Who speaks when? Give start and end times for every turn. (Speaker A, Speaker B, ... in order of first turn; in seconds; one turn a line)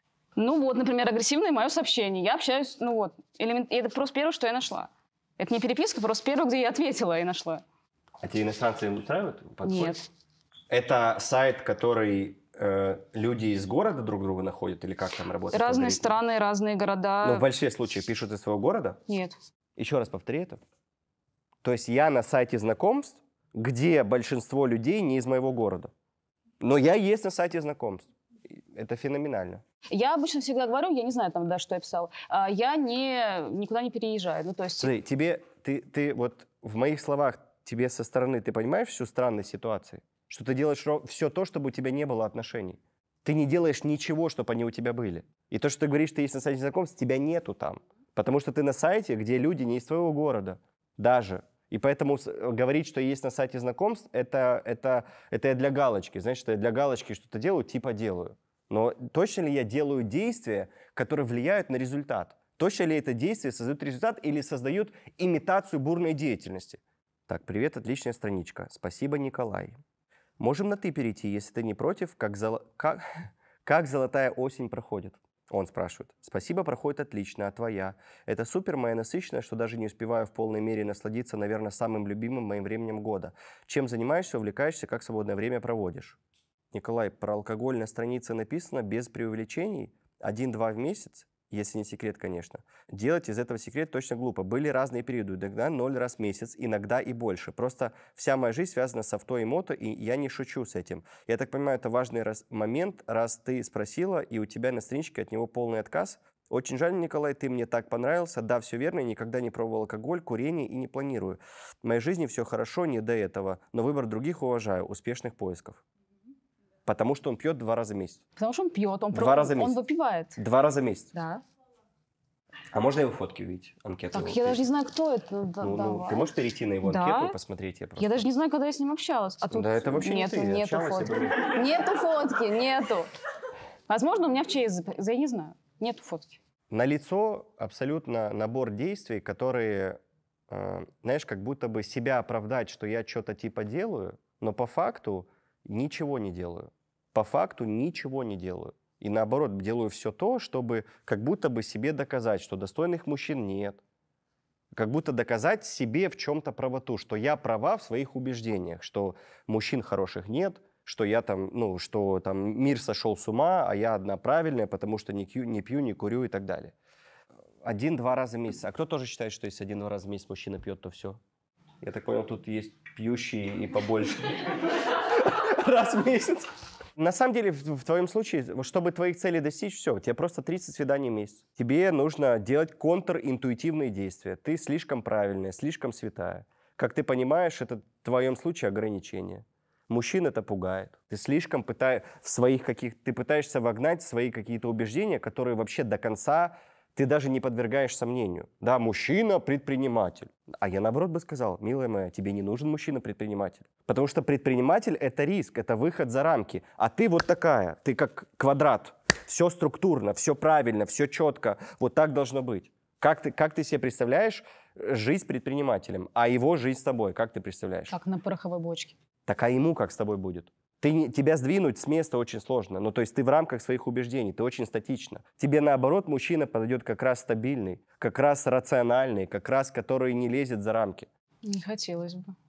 Speaker A: 0.4-7.6
Speaker B: 8.2-9.9
Speaker A: 9.6-10.0
Speaker B: 10.7-16.1
Speaker A: 15.5-17.4
Speaker B: 17.2-19.0
Speaker A: 19.1-19.4
Speaker B: 19.8-20.6
Speaker B: 21.6-25.9
Speaker B: 26.6-28.1
Speaker B: 28.7-29.6
Speaker A: 29.9-34.9
Speaker B: 34.8-69.8
Speaker B: 70.4-73.0
Speaker B: 73.6-86.2
Speaker B: 86.7-115.8
Speaker B: 116.9-118.2
Speaker A: 118.4-120.4
Speaker B: 119.1-119.8
Speaker B: 120.4-121.1
Speaker A: 121.1-121.4
Speaker B: 122.7-124.6
Speaker A: 124.1-126.3
Speaker B: 125.6-128.2
Speaker A: 126.8-127.4
Speaker A: 128.0-133.1
Speaker B: 129.5-131.6
Speaker A: 133.9-136.4
Speaker B: 136.7-140.0
Speaker B: 140.5-153.8
Speaker B: 154.8-166.8
Speaker B: 167.6-171.2
Speaker B: 171.8-217.9
Speaker A: 217.9-218.9
Speaker B: 219.2-231.1
Speaker A: 231.4-232.3